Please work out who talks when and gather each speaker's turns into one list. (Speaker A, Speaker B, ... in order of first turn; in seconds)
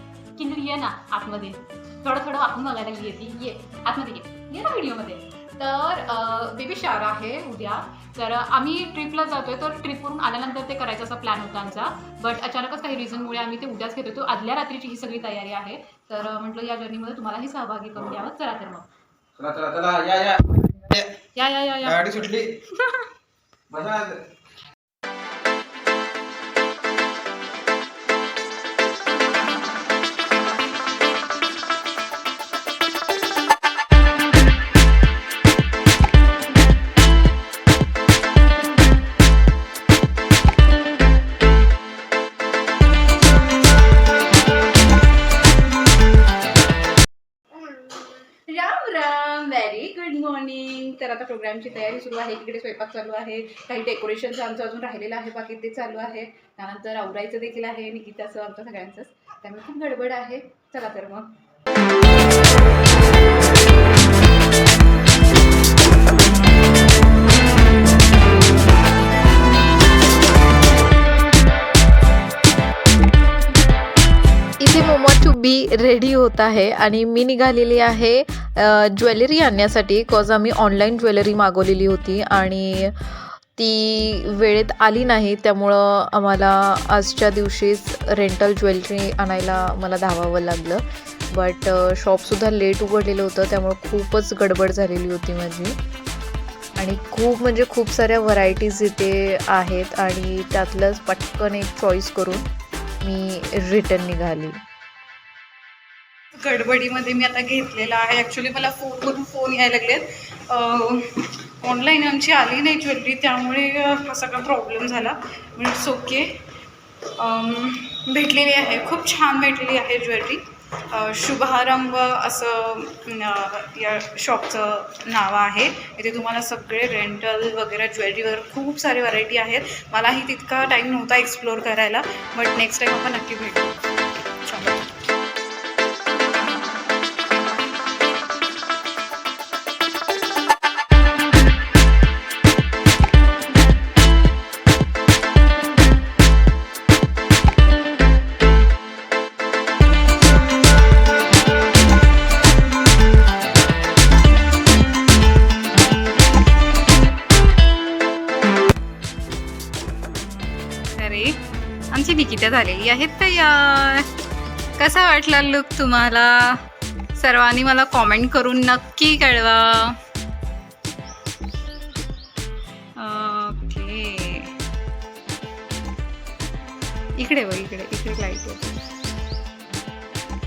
Speaker A: 0.4-18.9, 21.4-22.1, 22.7-23.1, 47.6-61.3, 106.3-116.3, 117.2-133.8, 134.4-134.9, 161.0-161.3, 161.9-164.1, 164.8-166.6, 167.2-170.0, 173.0-174.5, 177.2-178.8
Speaker B: 19.4-21.1, 21.9-22.5, 23.7-24.2
Speaker C: 74.6-95.8, 96.8-102.5, 103.0-104.6